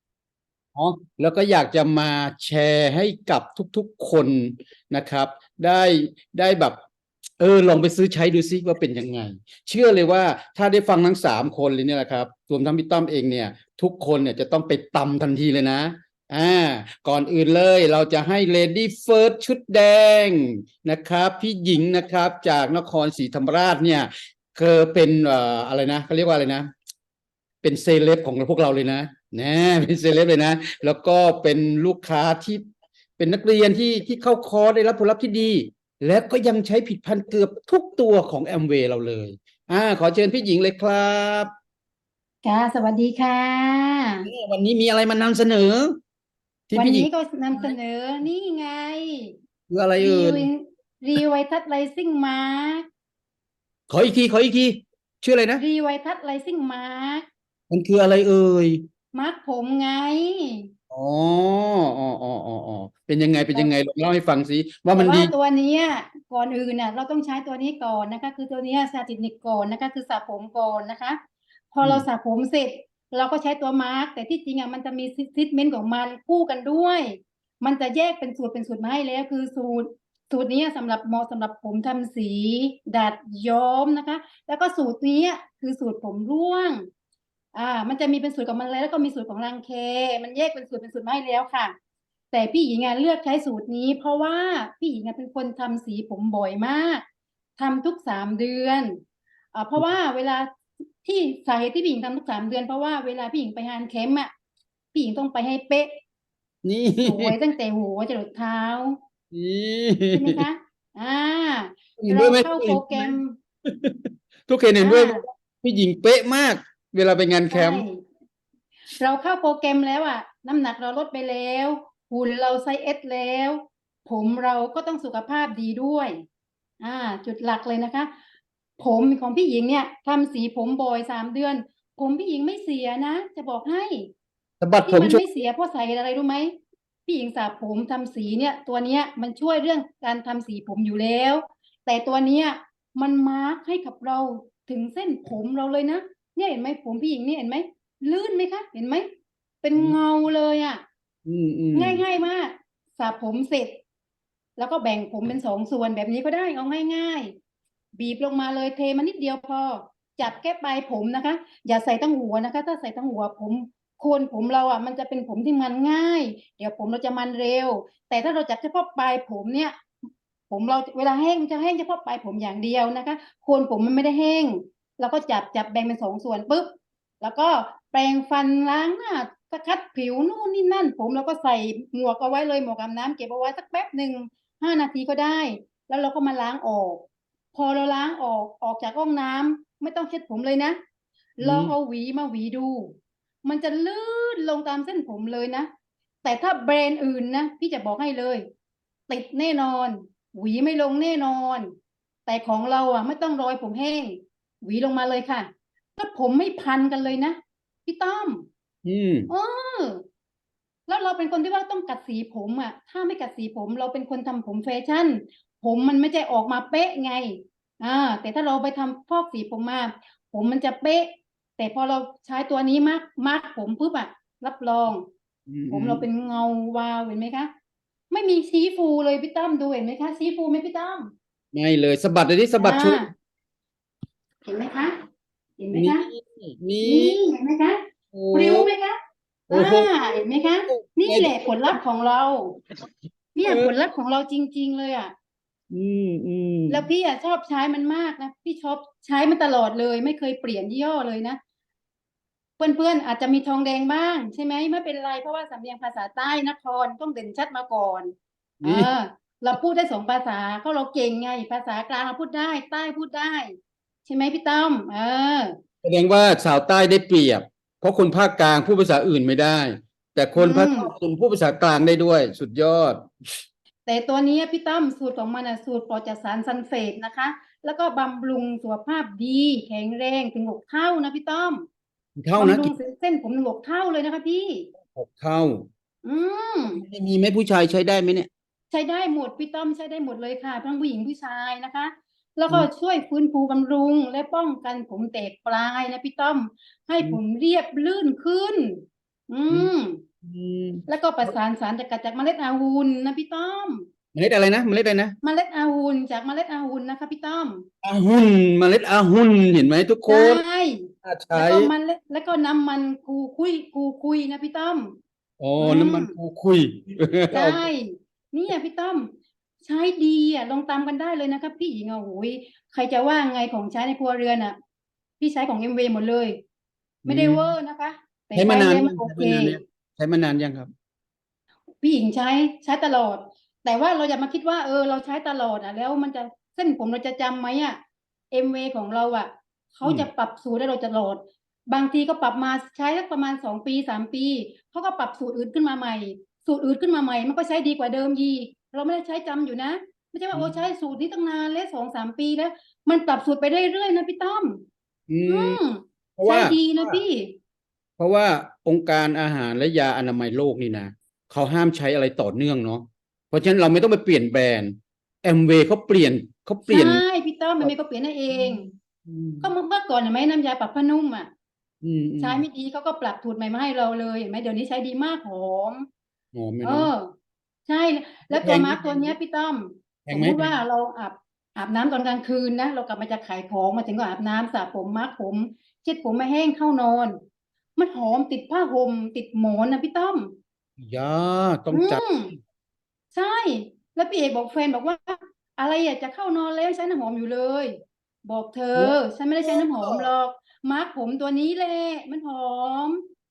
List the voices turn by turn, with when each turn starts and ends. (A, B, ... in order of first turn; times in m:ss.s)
0:00.7-0:06.8 A
0:07.4-0:26.7 A
0:27.6-0:32.6 A
0:33.2-0:41.5 A
0:42.4-0:44.3 B
0:44.2-0:46.0 A
0:46.7-0:47.7 A
0:46.7-0:49.4 B
0:49.7-0:50.5 A
0:50.0-0:52.9 B
0:53.9-0:55.6 A
0:55.6-0:57.3 B
0:57.7-0:58.9 A
0:59.1-1:00.7 B
1:00.9-1:05.3 A
1:04.9-1:11.2 B
1:11.7-1:26.9 B
1:27.5-1:31.7 B
1:32.3-1:37.0 B
1:37.6-1:39.0 B
1:39.5-1:40.5 B
1:41.0-1:44.3 B
1:44.9-1:46.0 B
1:46.6-1:47.4 A
1:47.0-1:49.0 B
1:49.3-1:50.4 A
1:50.1-1:53.4 B
1:52.0-1:57.8 A
1:54.8-1:55.2 B
1:57.5-1:58.0 B
1:59.0-2:06.2 B
2:06.8-2:08.1 B
2:08.8-2:14.1 B
2:14.6-2:15.2 A
2:14.8-2:29.1 B
2:29.6-2:30.8 B
2:31.2-2:32.0 A
2:31.7-2:33.8 B
2:34.6-2:37.4 B
2:37.9-2:49.8 B
2:50.5-3:10.8 B
3:11.4-3:15.7 B
3:11.4-3:11.8 A
3:16.2-3:18.5 B
3:19.1-3:21.7 B
3:22.3-3:28.5 B
3:28.8-3:29.3 A
3:29.3-3:30.0 B
3:30.9-3:45.0 B
3:45.5-3:46.0 A
3:45.7-3:47.5 B
3:48.1-3:51.1 B
3:51.5-3:53.0 A
3:52.6-3:53.1 B
3:54.4-3:55.0 B
3:55.6-3:56.0 B
3:55.7-3:57.2 A
3:56.8-3:57.8 B
3:58.1-3:58.7 A
3:58.3-3:59.0 B
3:59.5-4:00.0 A
3:59.5-4:02.6 B
4:00.7-4:01.7 A
4:03.3-4:05.1 B
4:03.4-4:03.7 A
4:05.7-4:06.9 A
4:06.7-4:11.4 B
4:12.6-4:25.6 B
4:18.6-4:18.9 A
4:25.8-4:33.4 A
4:30.4-4:30.9 B
4:33.8-4:41.7 B
4:42.2-4:42.7 A
4:42.4-4:44.7 B
4:44.8-4:45.7 A
4:46.0-4:46.8 B
4:46.7-4:48.3 A
4:48.7-5:00.0 B
5:00.2-5:01.3 A
5:00.9-5:03.9 B
5:04.1-5:05.1 A
5:05.2-5:07.7 B
5:07.8-5:10.4 A
5:10.1-5:15.0 B
5:11.0-5:11.7 A
5:15.4-5:17.7 A
5:15.6-5:16.1 B
5:17.3-5:24.6 B
5:25.2-5:26.4 B
5:27.0-5:27.5 A
5:27.1-5:29.6 B
5:28.3-5:30.7 A
5:31.8-5:37.8 B
5:38.3-5:54.6 B
5:39.8-5:40.1 A
5:55.1-5:55.6 A
5:55.2-5:57.4 B
5:56.2-5:57.0 A
5:58.0-6:07.0 A
6:06.7-6:08.7 B
6:08.3-6:09.5 A
6:09.4-6:11.3 B
6:11.8-6:12.4 A
6:12.2-6:15.9 B
6:16.3-6:16.9 A
6:16.6-6:17.1 B
6:17.7-6:27.2 B
6:18.3-6:19.1 A
6:20.0-6:20.5 A
6:27.8-6:30.4 B
6:30.8-6:32.0 A
6:31.7-6:32.3 B
6:33.1-6:43.0 B
6:38.8-6:40.1 A